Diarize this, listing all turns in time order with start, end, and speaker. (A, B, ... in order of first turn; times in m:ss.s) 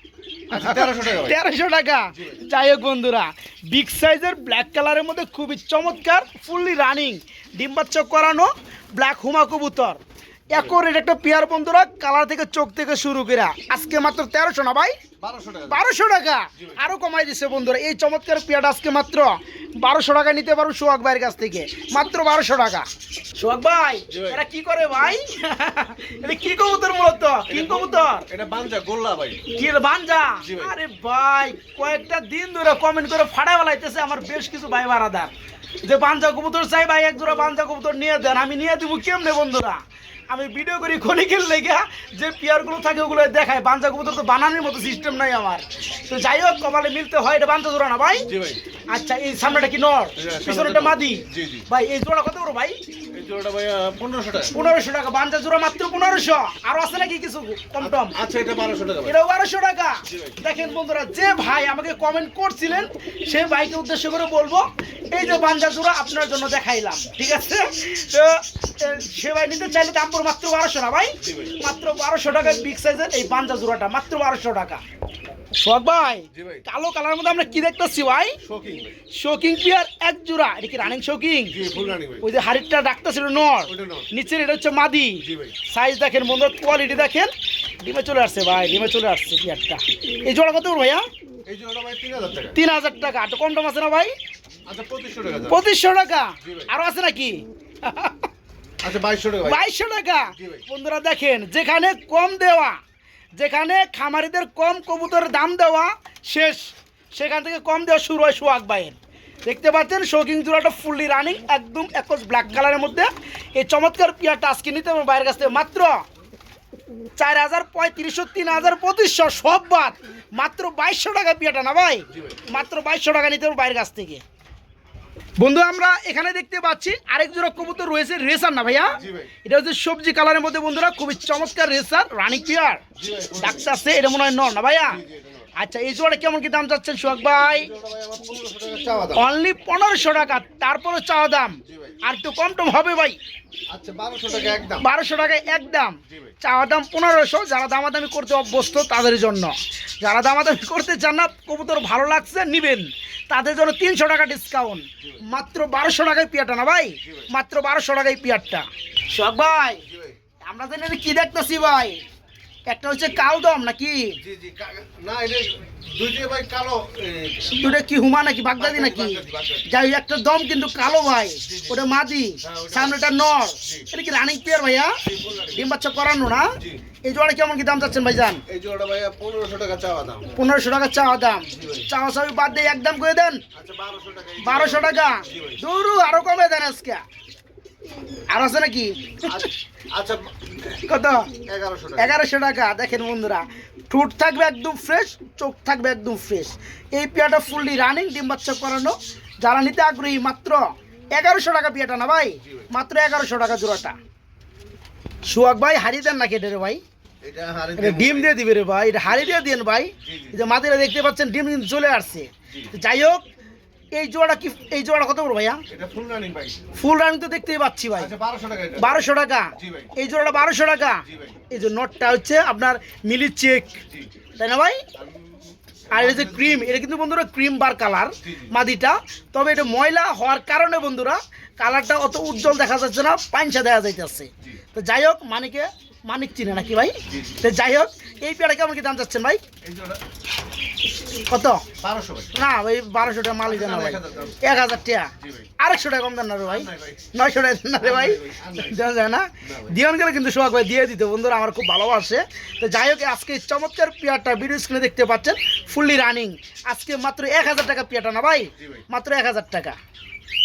0:00.5-0:01.4 A
0:00.5-0:15.0 B
0:02.1-0:02.4 A
0:10.5-0:10.8 A
0:15.2-0:15.8 A
0:15.7-0:28.3 B
0:16.6-0:16.8 A
0:24.1-0:24.4 A
0:27.5-0:29.5 A
0:29.5-0:35.3 B
0:30.4-0:30.8 A
0:35.8-0:48.3 B
0:48.3-0:48.6 A
0:48.9-0:52.8 B
0:50.2-0:51.7 A
0:53.1-0:54.6 A
0:54.5-0:58.2 B
0:57.8-0:59.2 A
0:59.1-1:14.8 B
1:00.1-1:00.4 A
1:11.2-1:11.6 A
1:15.6-1:18.4 B
1:16.3-1:16.6 A
1:18.4-1:19.0 A
1:19.1-1:21.6 B
1:21.5-1:22.3 A
1:22.2-1:31.0 B
1:23.7-1:24.1 A
1:25.2-1:25.6 A
1:31.5-1:32.6 A
1:32.5-1:34.1 B
1:34.7-1:35.6 A
1:35.5-1:38.3 B
1:36.4-1:36.7 A
1:38.8-1:39.6 A
1:39.4-1:42.8 B
1:40.4-1:40.6 A
1:43.4-1:56.0 B
1:57.2-2:04.2 B
2:02.1-2:02.5 A
2:05.4-2:12.8 B
2:08.9-2:09.3 A
2:13.0-2:13.7 A
2:13.4-2:15.0 B
2:14.9-2:15.5 A
2:15.6-2:17.7 B
2:17.5-2:19.3 A
2:19.2-2:23.2 B
2:21.6-2:22.0 A
2:23.7-2:24.9 A
2:24.8-2:39.8 B
2:26.1-2:26.4 A
2:37.0-2:37.3 A
2:39.8-2:40.2 A
2:40.4-2:42.0 B
2:42.7-2:44.2 B
2:44.2-2:47.7 A
2:47.5-2:55.0 B
2:48.6-2:49.7 A
2:51.5-2:51.8 A
2:52.4-2:53.0 A
2:53.6-2:53.9 A
2:55.0-2:55.7 A
2:55.6-2:58.4 B
2:56.6-2:56.8 A
2:58.5-3:00.4 A
3:00.4-3:03.4 B
3:01.5-3:01.9 A
3:03.5-3:05.6 A
3:04.4-3:07.0 B
3:08.3-3:09.5 B
3:09.2-3:12.2 A
3:10.9-3:11.3 B
3:12.0-3:24.0 B
3:25.3-3:26.8 B
3:27.2-3:28.4 A
3:27.8-3:33.2 B
3:29.0-3:29.4 A
3:30.0-3:30.4 A
3:33.9-3:35.6 B
3:35.7-3:36.7 A
3:36.8-3:38.1 B
3:38.0-3:39.0 A
3:38.8-3:43.8 B
3:39.6-3:39.9 A
3:41.0-3:41.4 A
3:44.4-3:44.8 B
3:45.0-3:46.7 A
3:45.9-3:59.4 B
3:48.2-3:48.6 A
3:57.1-3:57.4 A
3:59.6-4:00.0 A
4:01.3-4:01.6 B
4:01.8-4:02.4 A
4:02.4-4:19.8 B
4:03.3-4:04.5 A
4:05.2-4:05.5 A
4:06.5-4:07.2 A
4:07.8-4:08.8 A
4:09.4-4:09.8 A
4:18.6-4:18.8 A